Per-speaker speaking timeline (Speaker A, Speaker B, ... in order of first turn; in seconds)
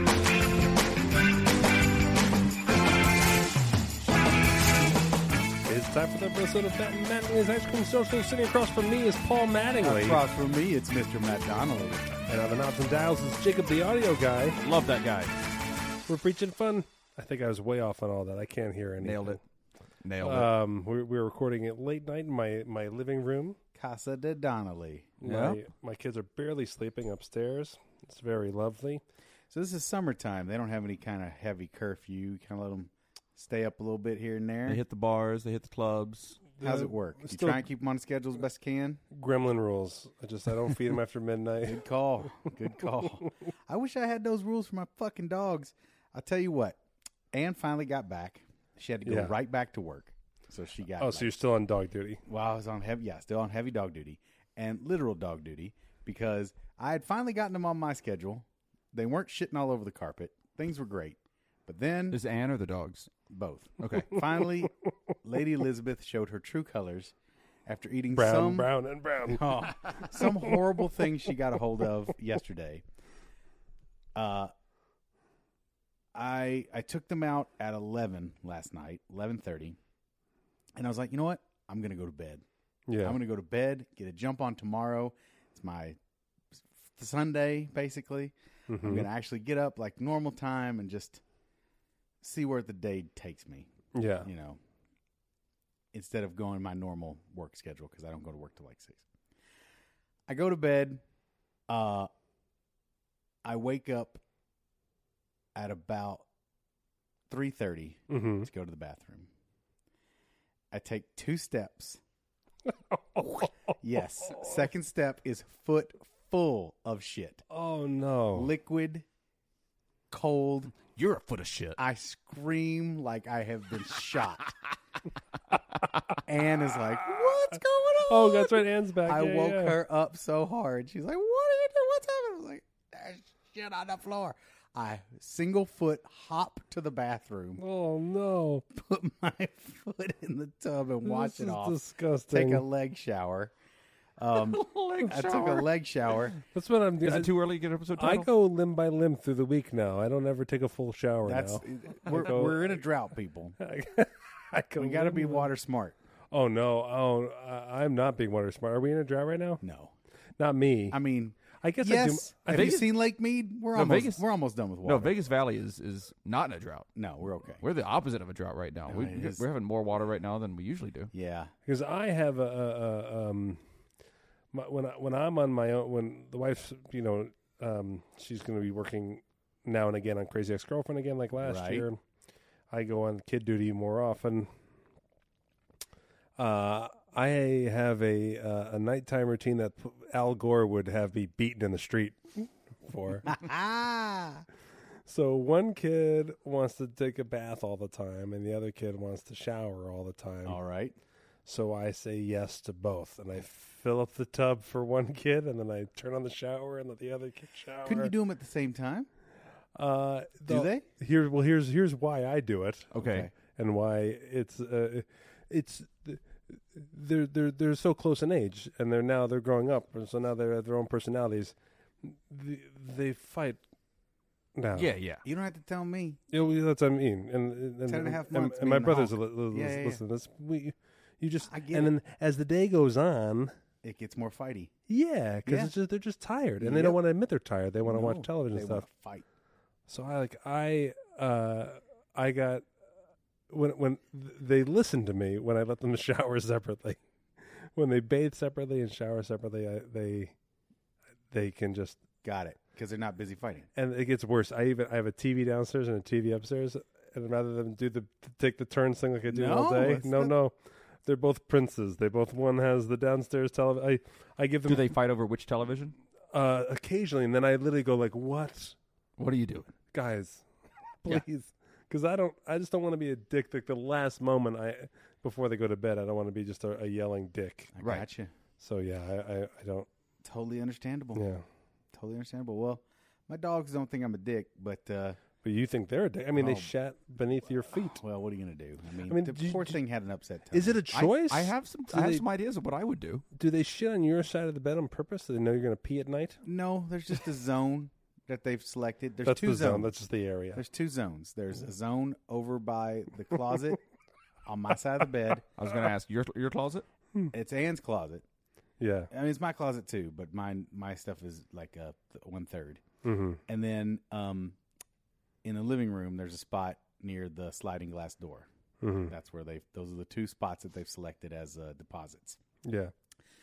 Speaker A: 5.6-10.2, 12.3-14.6, 16.1-19.4, 20.2-23.6, 25.2-29.0, 36.6-37.6, 39.1-41.8, 49.0-49.4, 51.0-52.2, 68.1-69.5, 70.2-70.6, 82.9-83.2, 88.7-89.1, 93.9-94.3, 108.1-108.5, 112.7-114.6, 117.5-118.5, 127.1-127.5, 128.1-129.8, 137.6-138.6, 141.0-142.6, 146.5-147.3, 147.9-152.8, 153.6-155.5, 156.3-159.6, 160.4-161.0, 161.6-162.9, 171.7-173.6, 174.5-182.0, 182.7-184.5, 186.4-193.3, 195.1-200.6, 201.4-208.1, 209.7-223.6, 224.6-224.9, 226.3-233.5, 234.9-238.9, 239.9-242.7, 243.5-247.0, 247.6-250.3, 251.3-252.0, 253.8-264.9, 266.3-268.8, 269.9-270.4, 271.0-277.7, 278.6-279.9, 281.1-281.4, 285.4-288.0, 289.1-289.8, 290.5-292.2, 293.4-296.4, 299.2-300.6, 308.8-309.1, 313.0-313.4, 318.8-319.1, 322.6-322.9
Speaker B: 9.8-12.1, 23.8-25.5, 29.5-34.8, 36.6-39.0, 41.6-46.8, 47.3-51.4, 52.3-62.2, 63.3-67.1, 67.7-68.7, 69.2-72.8, 74.1-74.5, 76.1-79.8, 80.7-82.4, 83.0-86.0, 86.6-91.2, 92.2-93.7, 94.2-94.6, 95.9-99.0, 100.3-101.0, 101.7-102.1, 103.4-104.2, 105.5-106.2, 107.3-109.3, 110.7-112.0, 113.8-117.4, 118.3-119.0, 120.1-120.7, 121.8-124.5, 126.2-137.6, 138.7-141.8, 142.3-143.5, 144.2-146.3, 151.2-153.6, 154.8-156.0, 159.6-159.9, 160.9-165.1, 166.9-167.6, 168.9-169.4, 171.1-171.5, 181.4-181.8, 193.2-194.4, 200.4-200.9, 207.8-209.1, 210.5-210.8, 213.0-213.3, 225.2-226.2, 227.9-230.0, 231.5-231.9, 233.8-234.7, 235.4-235.7, 236.6-237.0, 237.8-239.2, 252.2-253.7, 259.3-260.3, 277.7-278.3, 280.2-281.2, 281.9-285.2, 286.3-286.7, 287.9-290.9, 296.4-299.9, 300.5-303.8, 304.4-305.4, 307.3-308.2, 309.1-312.8, 313.5-314.6, 315.4-318.5, 319.1-322.4
Speaker C: 14.6-15.4, 19.0-19.4, 20.0-20.5, 25.2-25.6, 34.6-36.4, 62.1-63.1, 63.8-64.2, 120.9-121.8, 144.3-145.7, 147.0-148.3, 162.5-163.0, 163.7-164.2, 164.8-166.9, 167.6-171.1, 212.9-213.3, 224.8-225.2, 264.7-265.9, 269.2-269.7, 290.9-293.2, 305.6-306.8